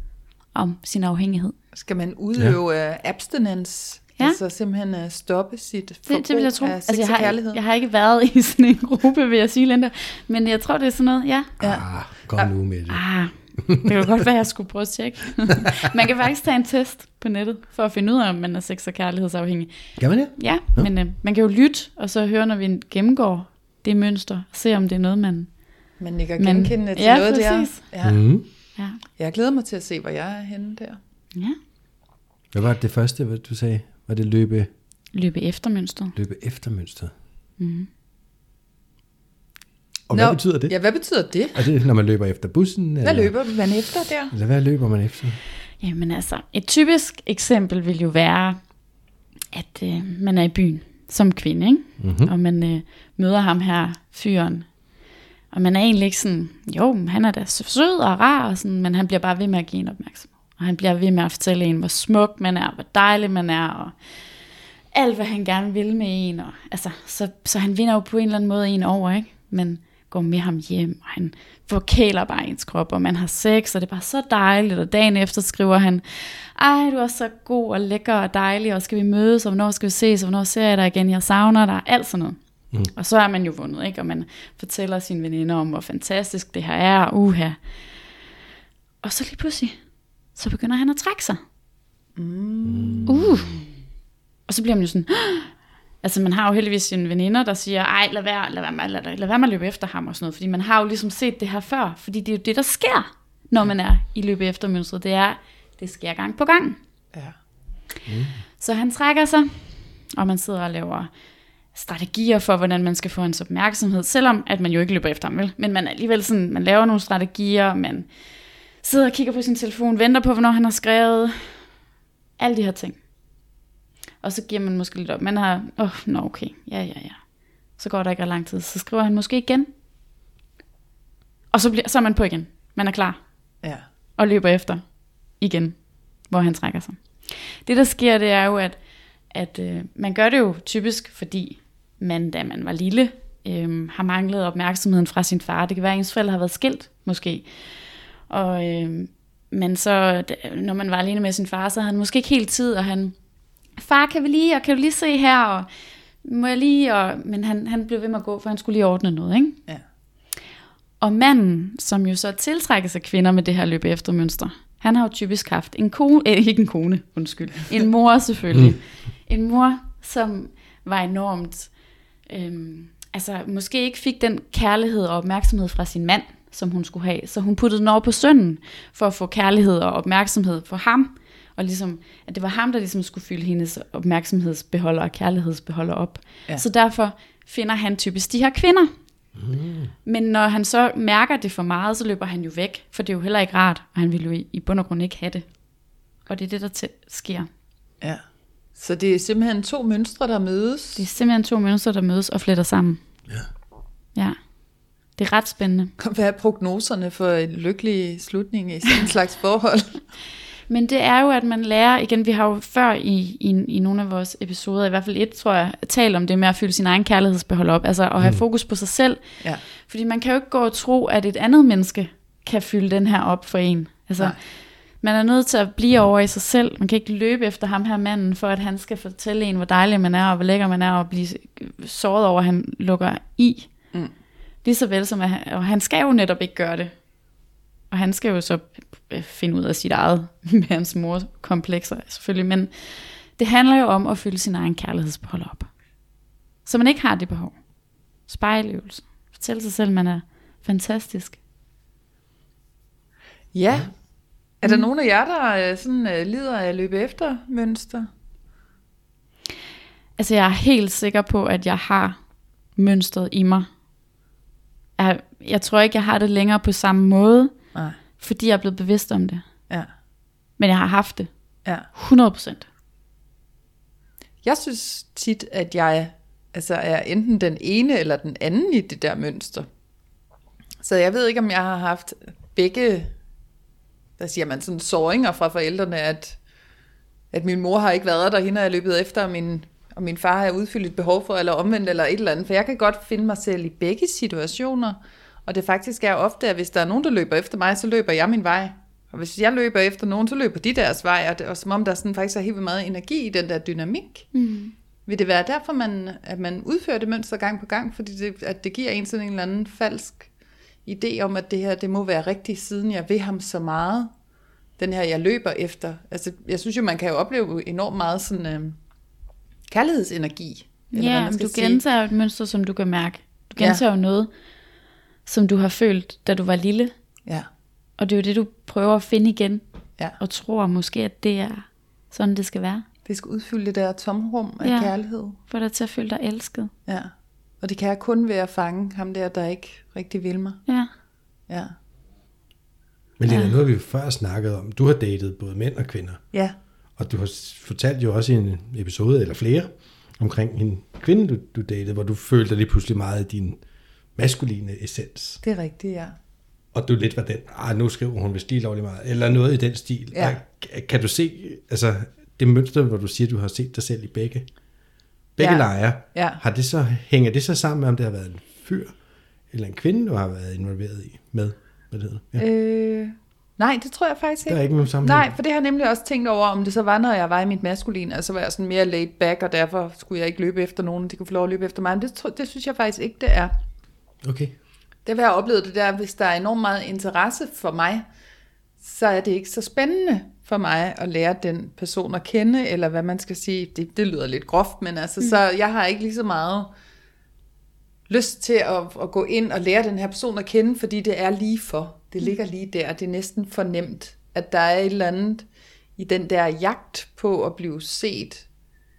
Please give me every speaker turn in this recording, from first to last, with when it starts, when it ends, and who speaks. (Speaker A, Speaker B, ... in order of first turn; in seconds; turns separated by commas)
Speaker A: 0.5-1.6, Speaker B: 1.7-7.6, Speaker A: 6.1-11.5, Speaker C: 11.6-13.0, Speaker B: 11.6-12.5, Speaker A: 12.9-25.6, Speaker C: 20.0-20.9, Speaker B: 26.0-28.3, Speaker A: 26.4-27.8, Speaker C: 28.0-28.4, Speaker B: 29.1-31.0, Speaker C: 32.5-34.7, Speaker A: 35.1-36.1, Speaker C: 36.1-37.1, Speaker A: 37.6-37.9, Speaker C: 40.1-40.7, Speaker B: 40.1-41.6, Speaker C: 41.5-43.3, Speaker B: 43.0-44.3, Speaker C: 44.3-45.4, Speaker A: 45.8-48.6, Speaker A: 49.5-54.7, Speaker C: 52.0-52.3, Speaker A: 55.5-64.0, Speaker A: 64.9-87.6, Speaker A: 89.0-89.8, Speaker A: 90.3-91.4, Speaker B: 92.2-93.1, Speaker C: 92.6-93.5, Speaker A: 93.1-93.6, Speaker A: 94.5-106.8, Speaker C: 108.1-108.4, Speaker A: 108.6-111.1, Speaker A: 111.7-118.1, Speaker A: 118.8-121.6, Speaker A: 122.4-123.0, Speaker A: 124.2-129.7, Speaker A: 131.5-133.2, Speaker A: 134.2-138.8, Speaker A: 139.3-147.4, Speaker A: 148.3-153.2, Speaker A: 153.8-155.7, Speaker A: 156.2-159.6, Speaker A: 161.0-171.7, Speaker A: 172.3-188.9, Speaker C: 189.3-189.9, Speaker A: 190.0-195.5, Speaker A: 196.3-197.5, Speaker B: 198.7-201.0, Speaker A: 201.0-203.0, Speaker A: 205.1-205.9, Speaker B: 206.0-210.0, Speaker A: 210.7-224.3, Speaker A: 225.0-233.7, Speaker A: 234.6-237.0, Speaker A: 237.9-245.7, Speaker A: 246.6-247.6, Speaker A: 248.3-251.4, Speaker B: 253.5-253.9, Speaker B: 254.6-258.1, Speaker A: 260.2-262.2, Speaker A: 262.8-263.7, Speaker A: 265.0-267.6, Speaker A: 268.2-269.4, Speaker A: 270.6-271.3, Speaker A: 271.9-272.6, Speaker B: 274.4-279.6, Speaker B: 280.8-283.1, Speaker B: 284.2-286.4, Speaker B: 287.3-304.3, Speaker A: 304.3-304.7, Speaker B: 305.1-310.3, Speaker B: 310.8-314.1, Speaker B: 314.8-318.8, Speaker B: 319.7-321.8, Speaker A: 320.9-324.3, Speaker A: 325.2-326.9, Speaker A: 328.0-329.6, Speaker A: 330.2-332.8, Speaker B: 333.1-335.4, Speaker A: 334.6-334.9, Speaker A: 335.5-336.7, Speaker B: 336.9-340.6, Speaker B: 341.5-341.7, Speaker C: 343.2-346.2, Speaker A: 343.3-343.5, Speaker C: 347.0-353.6, Speaker C: 354.1-355.4, Speaker B: 355.4-356.1, Speaker C: 356.7-364.5, Speaker B: 360.1-360.4, Speaker C: 365.4-368.9, Speaker B: 365.4-366.4, Speaker C: 369.5-372.4, Speaker B: 372.4-383.5, Speaker C: 374.4-375.3, Speaker C: 384.2-384.6, Speaker B: 385.1-388.0, Speaker B: 388.8-396.7, Speaker B: 398.1-405.4, Speaker B: 406.0-408.4